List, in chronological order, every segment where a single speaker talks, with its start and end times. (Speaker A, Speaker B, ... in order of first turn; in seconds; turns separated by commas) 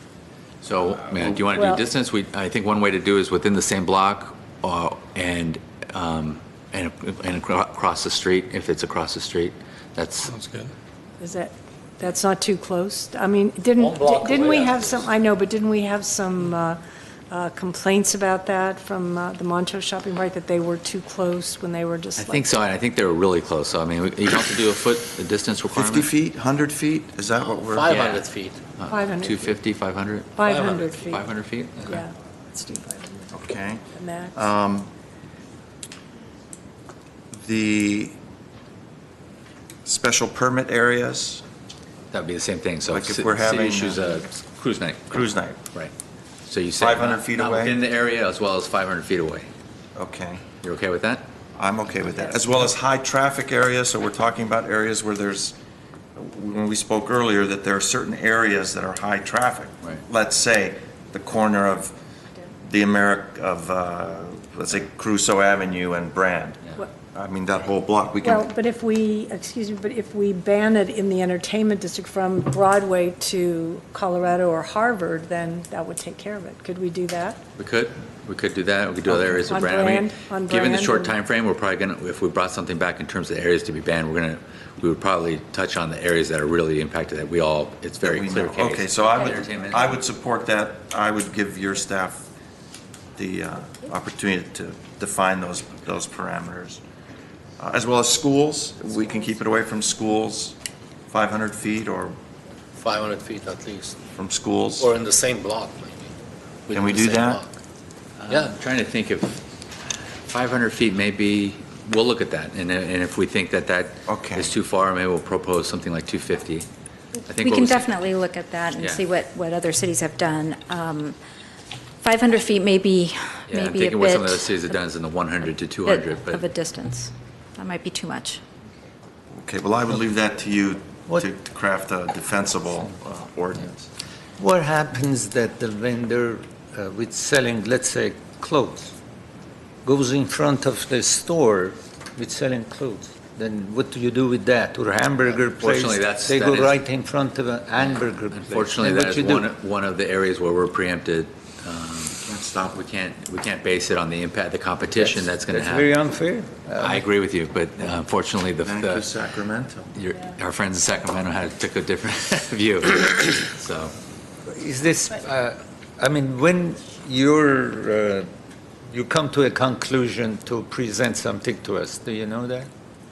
Speaker A: 0.6-10.5, Speaker B: 1.5-1.8, Speaker B: 11.2-22.5, Speaker C: 13.8-15.1, Speaker A: 22.2-26.1, Speaker D: 25.7-27.9, Speaker C: 27.3-28.7, Speaker A: 27.9-28.2, Speaker A: 28.8-32.0, Speaker B: 28.9-29.5, Speaker B: 30.4-31.2, Speaker C: 30.5-31.2, Speaker B: 31.8-33.3, Speaker D: 33.3-34.9, Speaker B: 33.9-34.5, Speaker D: 37.3-38.1, Speaker D: 39.8-41.4, Speaker A: 42.1-45.2, Speaker D: 42.9-44.2, Speaker D: 45.1-45.6, Speaker A: 46.5-49.5, Speaker D: 46.8-47.8, Speaker D: 50.0-50.4, Speaker A: 50.6-51.2, Speaker D: 51.5-55.5, Speaker D: 56.1-62.0, Speaker D: 62.6-66.6, Speaker D: 67.1-68.5, Speaker B: 68.2-77.4, Speaker A: 77.6-90.0, Speaker B: 79.5-81.2, Speaker D: 88.0-92.2, Speaker D: 93.2-96.8, Speaker D: 97.6-100.5, Speaker D: 101.1-102.2, Speaker C: 102.8-104.0, Speaker D: 104.1-104.9, Speaker C: 104.8-106.1, Speaker C: 106.7-107.5, Speaker D: 106.7-107.4, Speaker A: 108.2-109.4, Speaker C: 108.3-108.5, Speaker A: 110.3-116.7, Speaker D: 114.1-114.5, Speaker A: 117.3-117.9, Speaker E: 117.3-121.2, Speaker E: 122.0-124.6, Speaker A: 123.5-126.4, Speaker E: 125.8-128.4, Speaker D: 129.3-133.9, Speaker F: 134.4-138.9, Speaker F: 139.8-149.5, Speaker A: 145.5-146.7, Speaker A: 148.3-152.2, Speaker D: 152.2-152.8, Speaker A: 152.7-155.9, Speaker F: 154.9-157.1, Speaker A: 156.8-159.1, Speaker D: 158.6-159.9, Speaker A: 159.9-163.9, Speaker F: 164.5-168.2, Speaker F: 168.9-172.7